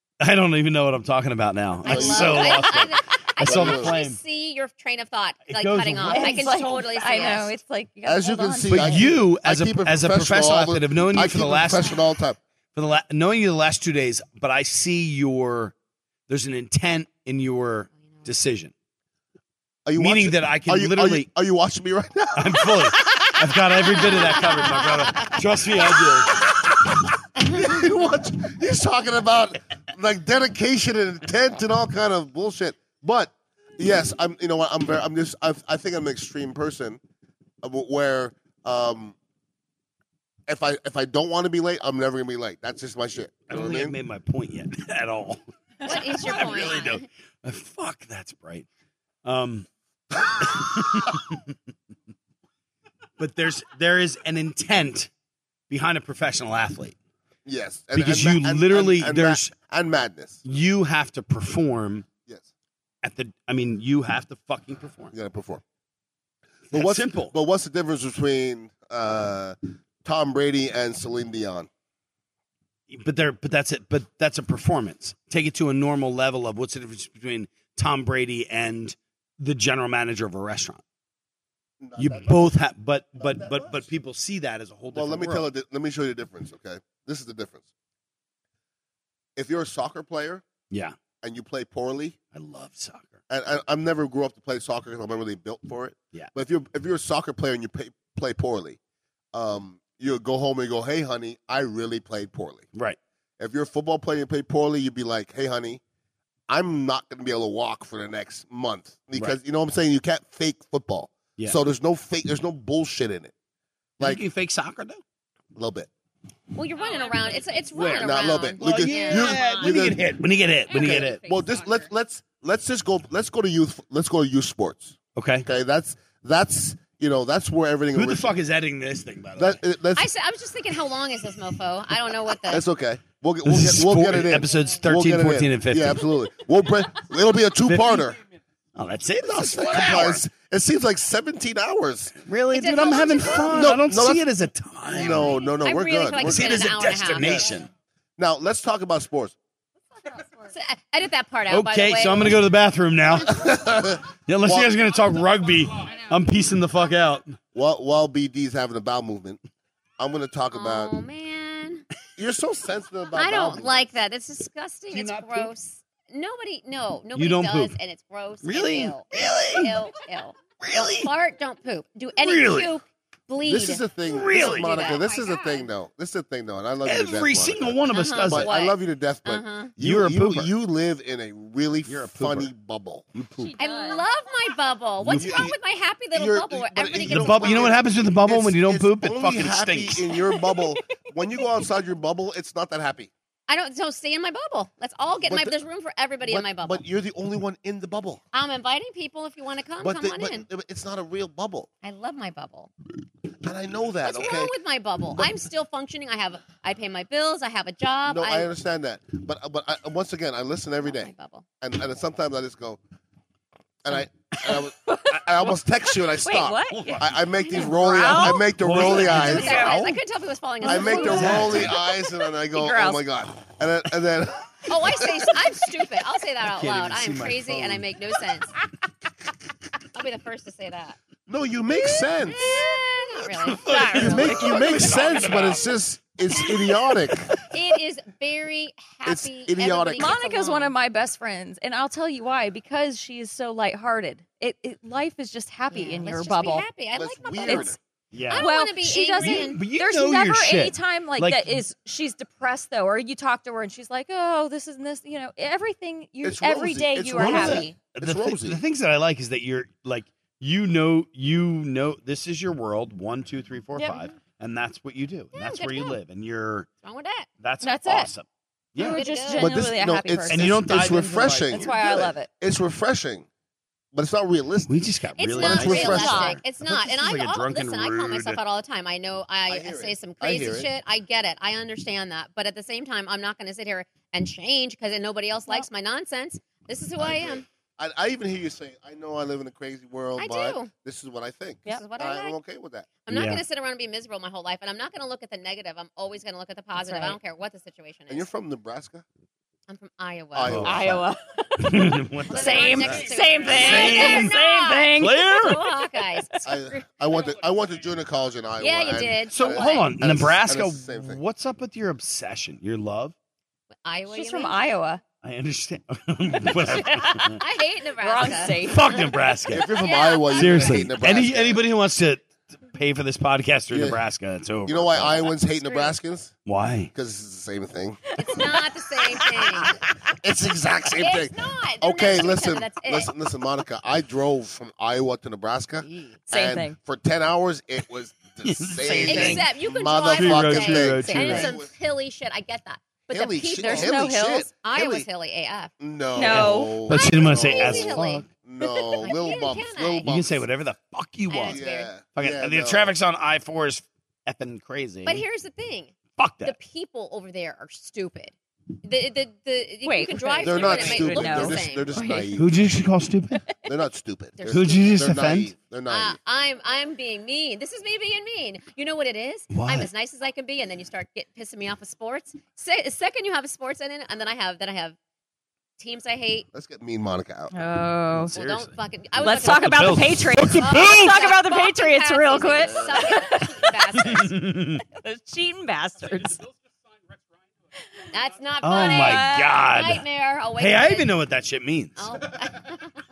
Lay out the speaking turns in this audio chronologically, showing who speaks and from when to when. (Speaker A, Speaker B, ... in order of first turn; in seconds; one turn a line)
Speaker A: 0.2-4.2
Speaker B: 1.8-2.8
Speaker C: 1.8-7.6
Speaker B: 3.4-3.9
Speaker A: 5.5-6.6
Speaker D: 6.1-9.1
Speaker B: 8.1-12.4
Speaker A: 8.7-12.1
Speaker A: 12.7-15.7
Speaker A: 16.3-18.7
Speaker B: 19.9-23.3
Speaker A: 20.0-21.3
Speaker A: 22.4-26.4
Speaker B: 23.9-24.2
Speaker B: 27.4-37.0
Speaker B: 37.6-39.2
Speaker B: 40.5-44.0
Speaker A: 43.5-48.7
Speaker C: 45.8-47.0
Speaker D: 45.9-46.9
Speaker A: 49.2-49.7
Speaker A: 50.2-51.5
Speaker A: 53.2-55.1
Speaker A: 55.7-57.0
Speaker B: 57.5-60.5
Speaker A: 58.0-59.5
Speaker A: 60.5-62.1
Speaker A: 63.0-65.1
Speaker B: 65.1-65.6
Speaker A: 66.7-67.3
Speaker B: 66.7-71.7
Speaker A: 72.9-80.8
Speaker B: 81.8-82.6
Speaker A: 82.0-85.5
Speaker B: 83.2-83.9
Speaker B: 84.9-87.7
Speaker B: 89.4-90.5
Speaker B: 91.2-92.2
Speaker A: 92.3-93.2
Speaker B: 93.3-98.8
Speaker B: 99.3-102.7
Speaker B: 103.4-105.8
Speaker B: 106.5-113.3
Speaker A: 114.0-115.0
Speaker B: 115.5-115.9
Speaker C: 116.5-119.4
Speaker D: 116.8-117.9
Speaker A: 117.8-121.2
Speaker B: 117.8-120.1
Speaker D: 118.9-119.8
Speaker D: 120.7-121.8
Speaker B: 120.7-128.3
Speaker A: 125.2-125.5
Speaker A: 127.9-129.6
Speaker B: 129.4-130.1
Speaker C: 129.9-132.7
Speaker B: 132.5-138.2
Speaker A: 133.4-136.1
Speaker A: 137.7-138.2
Speaker A: 138.8-140.2
Speaker B: 139.2-142.2
Speaker A: 142.2-145.3
Speaker C: 142.5-143.7
Speaker B: 143.2-144.3
Speaker B: 144.9-147.5
Speaker C: 145.0-147.6
Speaker A: 146.2-147.7
Speaker B: 148.2-149.4
Speaker D: 150.0-150.5
Speaker C: 150.5-152.4
Speaker A: 151.5-157.4
Speaker B: 153.2-154.7
Speaker B: 157.6-159.4
Speaker B: 160.0-160.9
Speaker C: 160.5-161.9
Speaker B: 162.2-163.9
Speaker C: 163.2-173.8
Speaker A: 164.9-165.5
Speaker A: 167.2-167.8
Speaker A: 168.4-169.8
Speaker A: 170.6-171.1
Speaker A: 172.2-172.7
Speaker B: 173.4-183.1
Speaker A: 174.0-174.8
Speaker C: 174.3-175.2
Speaker D: 174.8-175.6
Speaker A: 176.8-178.5
Speaker C: 177.9-178.5
Speaker C: 179.2-179.7
Speaker A: 179.8-180.5
Speaker A: 181.9-182.5
Speaker A: 183.1-183.6
Speaker D: 183.4-184.0
Speaker C: 183.6-187.7
Speaker B: 185.1-185.6
Speaker A: 185.1-185.4
Speaker B: 186.1-193.1
Speaker A: 187.1-190.1
Speaker D: 190.3-190.8
Speaker C: 193.5-196.8
Speaker B: 195.3-195.6
Speaker B: 196.3-198.2
Speaker C: 198.3-200.5
Speaker B: 199.8-201.7
Speaker C: 201.8-202.7
Speaker B: 203.4-204.5
Speaker C: 204.0-208.5
Speaker B: 208.1-212.8
Speaker C: 210.8-211.4
Speaker B: 213.8-219.7
Speaker D: 214.4-215.5
Speaker D: 216.1-218.5
Speaker A: 216.7-217.1
Speaker C: 217.5-221.7
Speaker A: 218.2-220.0
Speaker D: 219.2-219.8
Speaker B: 220.6-225.4
Speaker D: 220.6-221.9
Speaker A: 220.9-221.8
Speaker D: 222.4-223.0
Speaker C: 224.7-228.5
Speaker A: 226.4-227.9
Speaker C: 229.9-231.0
Speaker B: 231.3-232.6
Speaker C: 232.3-234.5
Speaker D: 232.4-232.6
Speaker A: 233.4-235.7
Speaker D: 233.6-235.0
Speaker B: 234.0-237.3
Speaker A: 236.4-237.4
Speaker C: 237.5-240.7
Speaker B: 239.1-240.2
Speaker D: 240.0-246.7
Speaker C: 245.7-247.8
Speaker B: 246.9-247.8
Speaker D: 247.5-247.8
Speaker A: 248.1-248.5
Speaker C: 248.3-249.7
Speaker D: 248.3-257.8
Speaker A: 249.2-251.6
Speaker B: 256.2-258.6
Speaker A: 257.1-266.7
Speaker D: 263.8-264.1
Speaker C: 265.3-266.0
Speaker C: 266.8-267.3
Speaker A: 267.4-269.1
Speaker D: 267.6-268.1
Speaker D: 268.8-271.0
Speaker C: 268.8-269.6
Speaker B: 269.4-273.3
Speaker A: 270.3-272.1
Speaker D: 271.5-272.3
Speaker B: 273.9-274.8
Speaker A: 274.7-278.4
Speaker C: 275.2-287.5
Speaker B: 275.4-276.4
Speaker D: 275.5-276.4
Speaker B: 279.5-280.7
Speaker B: 287.0-292.9
Speaker C: 290.2-290.7
Speaker C: 291.7-292.4
Speaker C: 293.0-298.3
Speaker A: 293.1-293.4
Speaker D: 296.8-297.2
Speaker B: 298.1-299.1
Speaker C: 299.7-300.6
Speaker B: 300.3-301.1
Speaker A: 300.5-300.9
Speaker D: 300.6-305.6
Speaker A: 301.6-304.4
Speaker C: 302.3-306.8
Speaker A: 304.9-305.6
Speaker B: 306.4-311.2
Speaker C: 308.6-309.9
Speaker A: 309.3-313.1
Speaker C: 313.8-314.7
Speaker D: 314.1-315.0
Speaker A: 315.2-317.4
Speaker D: 316.6-317.4
Speaker C: 317.2-318.7
Speaker D: 318.0-319.0
Speaker A: 318.5-319.7
Speaker B: 319.5-321.6
Speaker C: 319.7-320.8
Speaker A: 320.3-325.3
Speaker B: 323.7-324.0
Speaker B: 324.7-326.3
Speaker C: 325.5-325.9
Speaker A: 326.5-326.9
Speaker B: 326.9-328.4
Speaker C: 328.1-329.8
Speaker D: 328.2-329.7
Speaker B: 330.1-341.7
Speaker C: 330.9-333.1
Speaker C: 335.8-336.2
Speaker D: 336.3-336.8
Speaker A: 338.4-339.5
Speaker C: 339.1-345.7
Speaker D: 339.1-339.4
Speaker A: 340.1-341.5
Speaker B: 343.1-345.1
Speaker D: 343.6-344.1
Speaker B: 345.8-350.5
Speaker D: 346.1-346.8
Speaker A: 346.2-348.3
Speaker C: 346.9-350.1
Speaker A: 350.0-351.6
Speaker D: 351.3-351.6
Speaker C: 351.3-351.9
Speaker B: 351.5-352.9
Speaker A: 352.2-355.2
Speaker C: 355.0-362.2
Speaker A: 356.2-356.6
Speaker D: 359.9-362.3
Speaker B: 360.4-362.5
Speaker A: 362.4-363.4
Speaker B: 363.6-366.2
Speaker C: 364.4-365.0
Speaker A: 364.5-365.5
Speaker C: 365.9-375.0
Speaker A: 369.5-369.9
Speaker C: 375.8-376.5
Speaker B: 376.5-377.5
Speaker D: 377.5-378.3
Speaker A: 378.1-381.2
Speaker C: 378.3-384.4
Speaker D: 379.2-386.4
Speaker B: 382.3-383.3
Speaker A: 384.1-384.8
Speaker C: 388.1-391.1
Speaker A: 388.6-392.2
Speaker D: 388.7-389.7
Speaker C: 392.0-392.9